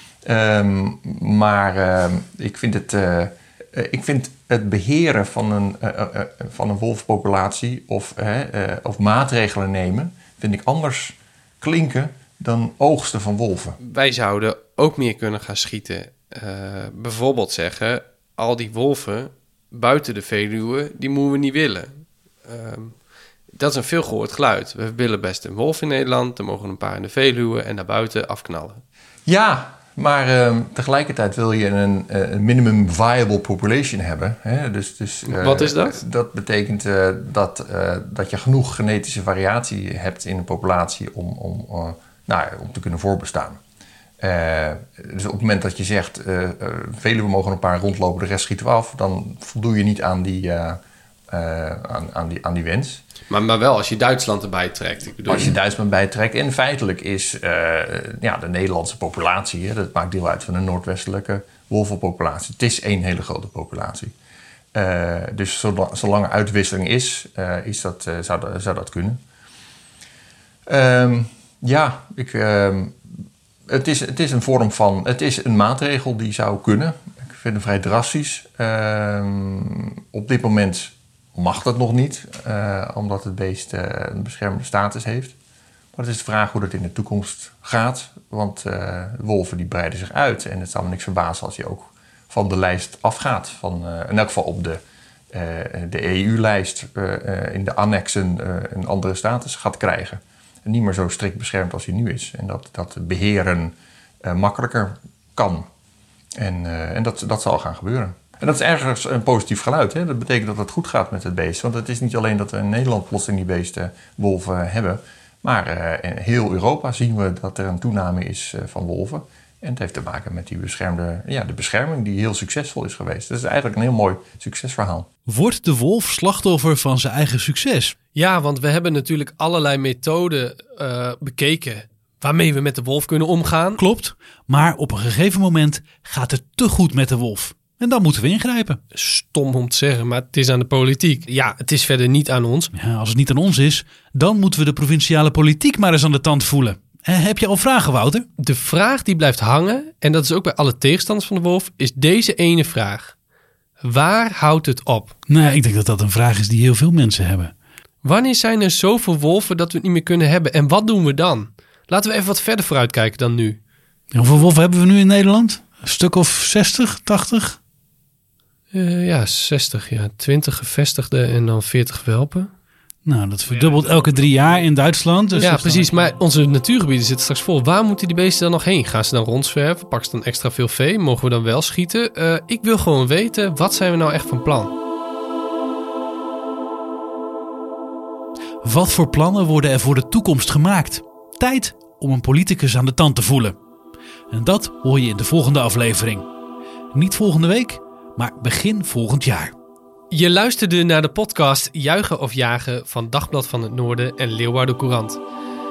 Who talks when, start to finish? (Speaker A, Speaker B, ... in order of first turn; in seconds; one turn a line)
Speaker A: 0.2-13.8
Speaker B: 13.8-28.8
Speaker A: 29.3-43.6
Speaker B: 35.2-36.0
Speaker A: 44.2-53.0
Speaker B: 53.3-55.5
Speaker A: 55.3-64.1
Speaker A: 64.7-69.2
Speaker A: 70.7-73.1
Speaker A: 73.7-85.3
Speaker A: 85.9-94.8
Speaker A: 95.3-105.7
Speaker A: 106.4-125.1
Speaker C: 125.3-128.0
Speaker B: 128.2-133.8
Speaker C: 133.8-138.8
Speaker B: 138.9-142.7
Speaker C: 142.7-148.3
Speaker B: 148.4-153.2
Speaker B: 153.8-155.2
Speaker C: 155.3-157.5
Speaker B: 158.0-163.6
Speaker C: 164.1-167.6
Speaker B: 168.7-172.5
Speaker C: 173.1-176.0
Speaker B: 173.5-174.3
Speaker B: 175.4-184.7
Speaker C: 188.6-193.6
Speaker C: 194.3-196.3
Speaker C: 196.9-199.5
Speaker B: 200.1-205.2